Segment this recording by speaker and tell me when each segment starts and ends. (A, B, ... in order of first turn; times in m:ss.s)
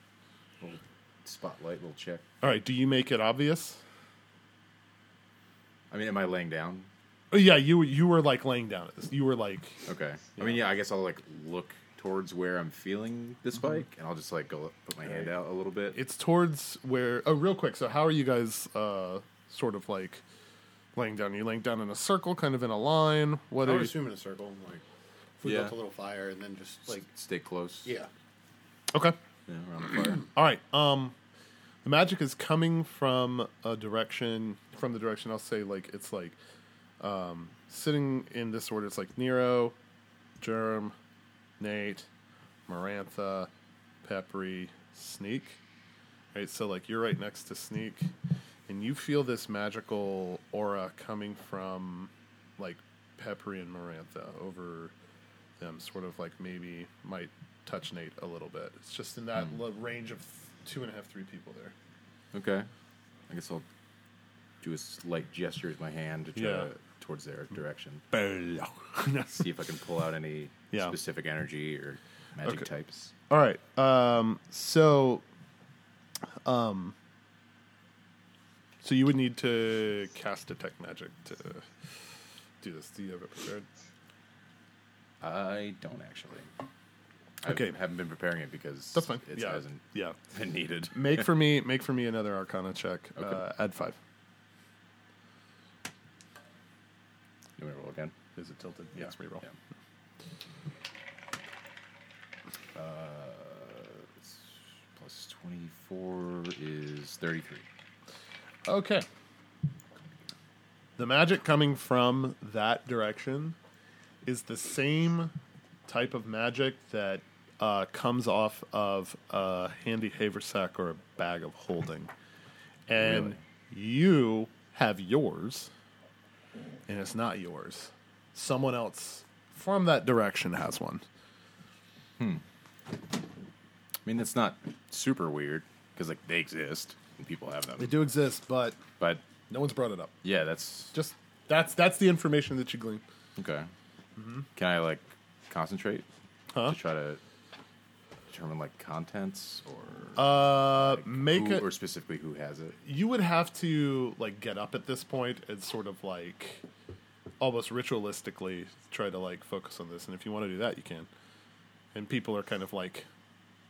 0:00.6-0:02.2 A
0:02.4-0:03.8 B
0:05.9-0:06.9 A
0:07.3-0:09.8 B
0:09.8-0:16.0 A
0:15.9-0:20.2 B
0:20.9-0:23.9 B
0:23.6-0:24.8 C
0:25.4-0:27.0 C
0:25.4-0:25.7 A
0:26.9-0:27.9 A
0:27.8-0:28.1 C
0:29.5-0:30.2 A
0:30.3-0:31.1 B
0:31.8-0:36.4 B
0:37.0-0:39.7 B
0:40.4-0:40.9 B
0:41.6-0:42.1 B
0:42.7-0:43.5 B
0:44.0-0:45.6 B
0:46.3-0:48.1 B
0:48.7-0:54.9 B
0:55.6-1:01.7 B
1:02.3-1:02.7 A
1:03.3-1:03.6 A
1:04.6-1:08.0 A
1:06.3-1:06.7 B
1:08.1-1:09.4 B
1:09.3-1:13.1 A
1:13.3-1:15.2 B
1:16.4-1:16.9 B
1:18.8-1:21.6 B
1:22.6-1:23.6 B
1:25.2-1:26.5 A
1:27.4-1:31.2 A
1:27.4-1:27.7 B
1:28.9-1:30.2 B
1:30.9-1:34.0 B
1:37.6-1:38.1 A
1:38.4-1:39.5 B
1:42.7-1:44.4 A
1:45.0-1:47.6 A
1:48.7-1:49.0 B
1:51.0-1:53.6 B
1:54.2-1:55.3 B
1:55.9-2:02.1 B
2:02.9-2:05.7 B
2:02.9-2:03.4 A
2:06.9-2:11.0 B
2:14.0-2:18.0 A
2:17.8-2:18.8 B
2:19.5-2:20.1 B
2:20.2-2:20.9 A
2:20.9-2:23.0 B
2:23.4-2:23.7 A
2:24.2-2:24.4 B
2:24.6-2:26.1 A
2:26.6-2:27.2 A
2:28.3-2:32.8 A
2:30.2-2:31.6 B
2:32.8-2:36.6 B
2:37.4-2:41.1 B
2:41.9-2:43.0 B